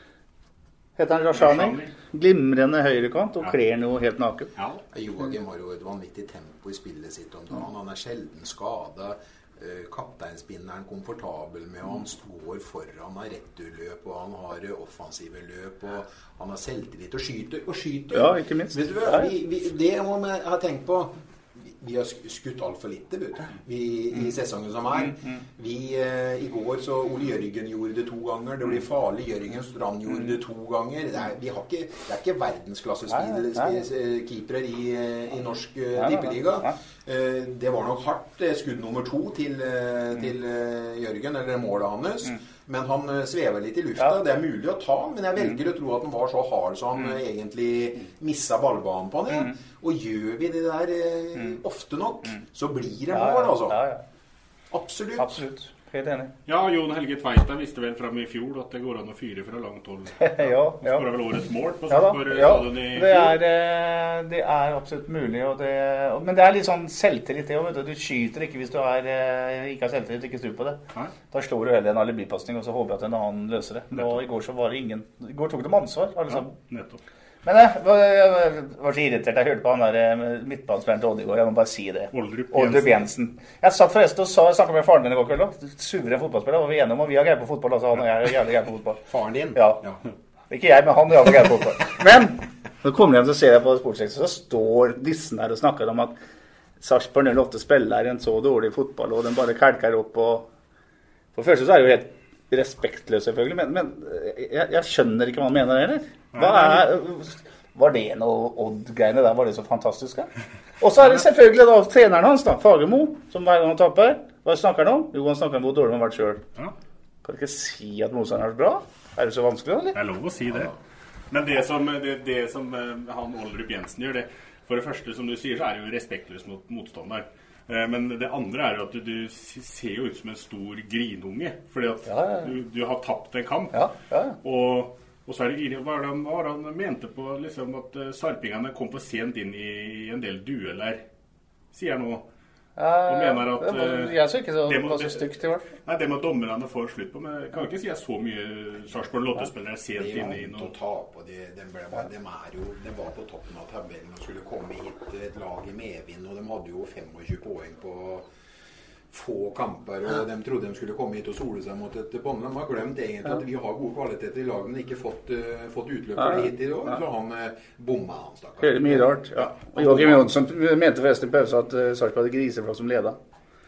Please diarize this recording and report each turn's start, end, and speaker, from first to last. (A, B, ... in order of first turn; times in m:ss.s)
0:01.0-0:04.5 A
0:01.3-0:01.9 B
0:04.6-0:04.8 B
0:04.9-0:53.8 C
0:18.1-0:19.3 A
0:33.1-0:33.7 A
0:36.0-0:36.7 A
0:53.1-0:54.0 A
0:54.7-0:55.4 C
0:55.2-0:56.3 A
0:56.4-1:03.4 B
1:00.2-1:01.0 A
1:01.9-1:10.8 A
1:11.3-1:16.5 A
1:16.3-1:17.0 B
1:17.4-1:29.0 A
1:22.1-1:23.0 B
1:29.1-1:30.0 C
1:29.5-1:29.8 A
1:30.5-1:36.1 A
1:36.8-1:40.5 A
1:41.3-1:50.3 A
1:46.3-1:46.9 B
1:50.8-1:56.4 A
1:57.2-2:00.0 A
1:59.9-2:00.7 B
2:01.3-2:13.8 B
2:12.1-2:12.5 A
2:13.7-2:14.4 A
2:14.4-2:21.0 B
2:21.7-2:22.2 B
2:22.8-2:25.6 A
2:23.0-2:25.3 B
2:25.8-2:30.7 B
2:30.0-2:38.3 C
2:39.1-2:50.4 C
2:48.6-2:53.2 A